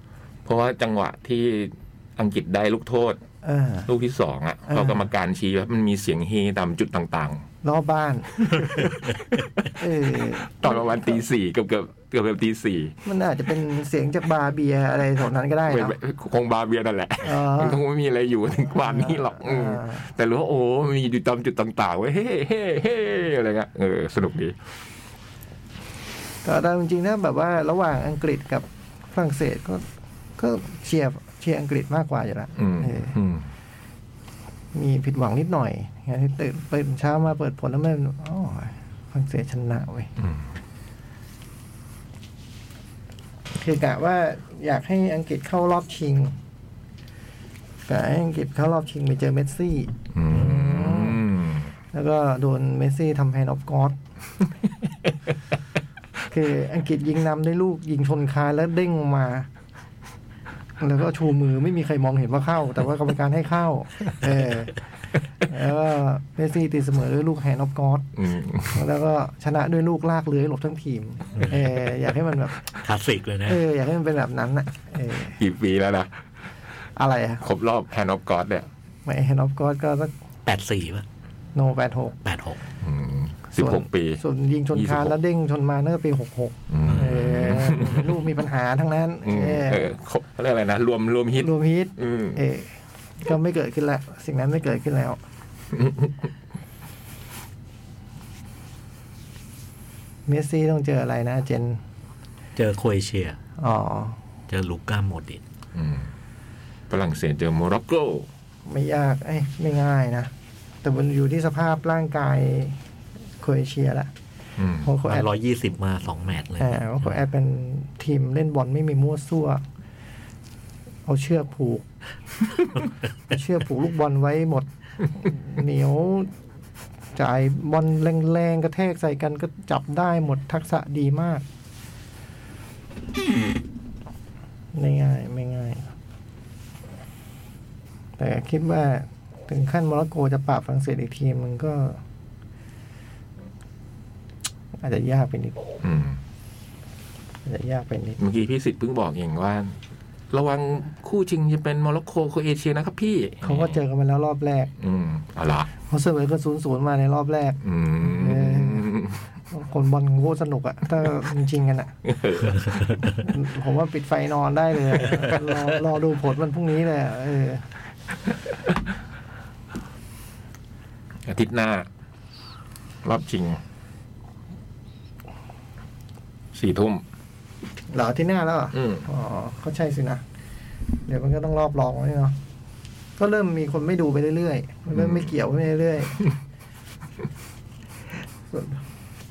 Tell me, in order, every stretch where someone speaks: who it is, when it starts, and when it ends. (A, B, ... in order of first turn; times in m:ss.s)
0:00.4-0:03.2 A
0:03.4-0:03.9 B
0:03.9-0:07.4 A
0:04.7-0:05.1 B
0:07.6-0:09.0 B
0:08.7-0:09.7 A
0:09.7-0:11.2 B
0:10.5-0:13.0 A
0:13.1-0:16.0 B
0:15.7-0:24.6 A
0:17.2-0:17.8 B
0:18.8-0:20.0 B
0:26.4-0:29.8 B
0:30.4-0:33.2 B
0:32.6-0:33.5 A
0:34.7-0:40.1 B
0:40.2-0:40.5 A
0:43.6-0:46.4 B
0:47.9-0:51.3 B
0:50.1-0:51.7 A
0:51.9-0:54.0 B
0:56.3-0:59.5 B
1:00.8-1:04.8 B
1:05.4-1:08.1 B
1:08.2-1:08.8 A
1:08.7-1:12.6 B
1:12.8-1:13.6 C
1:13.5-1:15.4 B
1:15.4-1:16.3 A
1:17.0-1:17.4 B
1:17.4-1:18.7 A
1:19.1-1:20.1 B
1:20.5-1:21.0 C
1:21.6-1:22.2 B
1:22.2-1:22.6 C
1:22.8-1:24.2 A
1:23.6-1:29.9 B
1:24.7-1:25.2 A
1:26.7-1:28.2 A
1:26.8-1:27.2 C
1:29.2-1:32.4 A
1:31.3-1:35.2 B
1:35.7-1:36.3 A
1:40.3-1:41.8 B
1:42.6-1:43.4 C
1:43.6-1:44.2 B
1:44.5-1:45.4 C
1:45.7-1:46.1 A
1:46.9-1:48.3 A
1:48.7-1:50.3 B
1:50.8-1:52.8 B
1:53.4-1:54.1 B
1:54.6-1:54.9 A
1:54.8-1:55.3 B
1:55.0-1:57.1 C
1:56.6-1:59.6 B
2:01.1-2:01.8 B
2:03.3-2:06.3 B
2:07.2-2:11.4 B
2:14.7-2:15.9 B
2:18.2-2:22.0 B
2:24.8-2:25.6 B
2:25.8-2:26.2 A
2:27.4-2:28.2 B
2:28.2-2:29.8 A
2:30.3-2:33.8 A
2:33.4-2:34.7 B
2:34.8-2:35.7 A
2:35.9-2:38.9 B
2:37.6-2:39.2 A
2:39.5-2:41.9 B
2:42.0-2:43.0 A
2:42.8-2:43.2 C
2:43.2-2:47.6 B
2:51.2-2:51.9 A
2:53.0-2:53.6 A
2:56.5-2:57.0 A
2:57.9-3:00.2 B
2:58.7-2:59.1 A
3:01.1-3:02.4 B
3:03.2-3:06.3 B
3:04.9-3:05.2 A
3:08.5-3:08.8 B